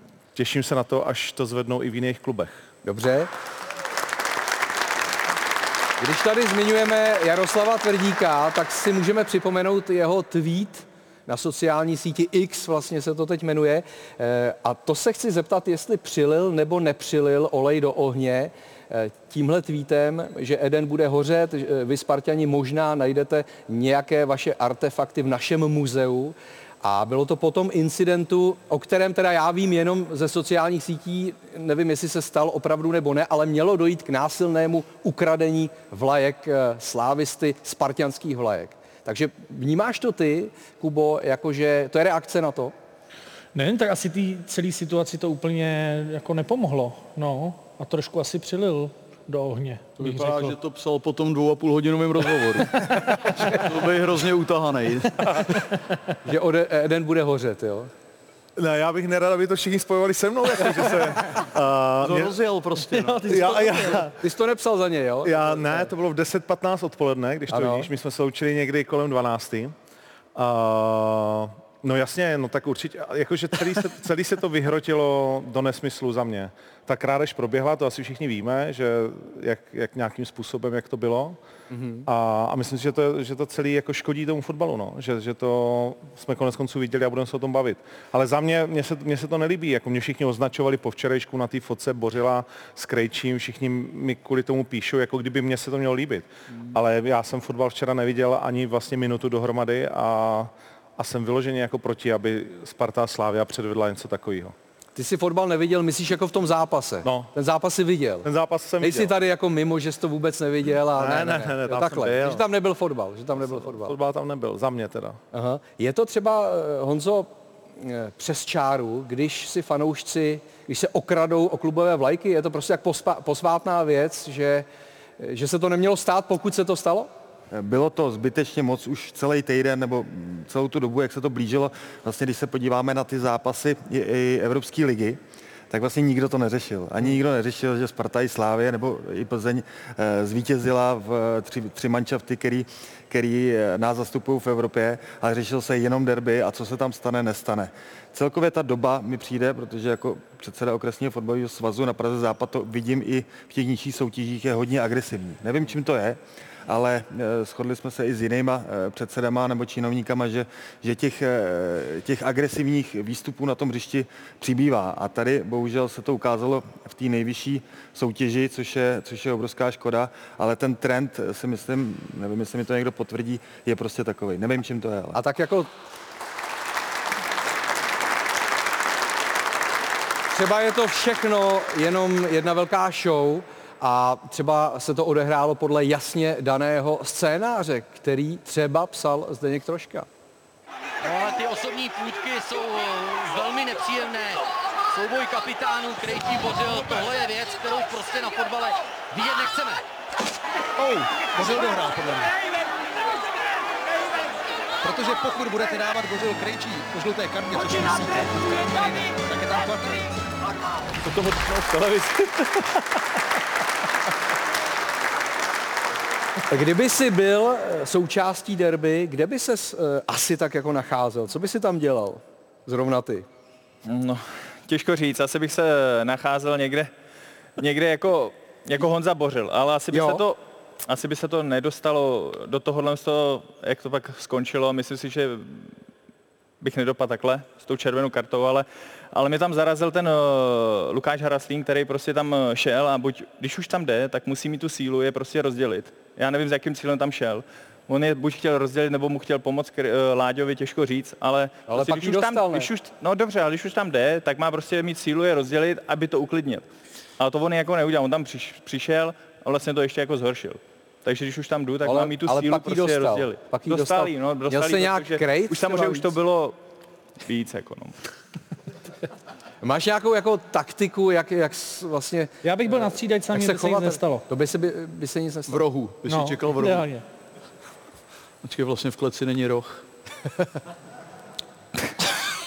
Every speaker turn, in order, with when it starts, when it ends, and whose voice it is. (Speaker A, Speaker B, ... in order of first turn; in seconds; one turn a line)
Speaker A: 0.3-2.7
Speaker B: 2.9-3.3
Speaker B: 6.0-42.7
Speaker C: 43.5-50.6
Speaker D: 50.0-55.4
Speaker B: 56.2-57.9
Speaker A: 58.6-62.4
Speaker D: 62.0-64.0
Speaker A: 63.3-64.2
Speaker B: 64.2-65.9
Speaker A: 65.2-69.7
Speaker B: 67.5-67.9
Speaker A: 70.4-81.4
Speaker B: 81.7-82.1
Speaker A: 82.1-104.5
Speaker B: 105.0-108.3
Speaker A: 107.0-107.3
Speaker A: 108.2-109.1
Speaker B: 108.8-114.0
Speaker A: 111.0-112.5
Speaker A: 113.4-115.2
Speaker B: 115.3-124.7
Speaker B: 125.2-127.1
Speaker E: 127.5-175.2
Speaker B: 175.1-175.7
Speaker B: 180.3-190.1
Speaker F: 191.0-194.4
Speaker F: 194.9-199.8
Speaker G: 200.8-202.4
Speaker G: 204.8-210.0
Speaker H: 211.1-212.6
Speaker B: 216.5-223.3
Speaker H: 223.8-226.9
Speaker H: 227.6-235.8
Speaker B: 229.9-230.2
Speaker H: 236.6-256.7
Speaker B: 251.7-252.7
Speaker H: 257.2-266.6
Speaker B: 261.8-266.1
Speaker H: 267.2-268.1
Speaker B: 269.6-275.6
Speaker C: 272.4-274.2
Speaker D: 275.5-276.9
Speaker C: 276.1-277.0
Speaker D: 278.4-279.9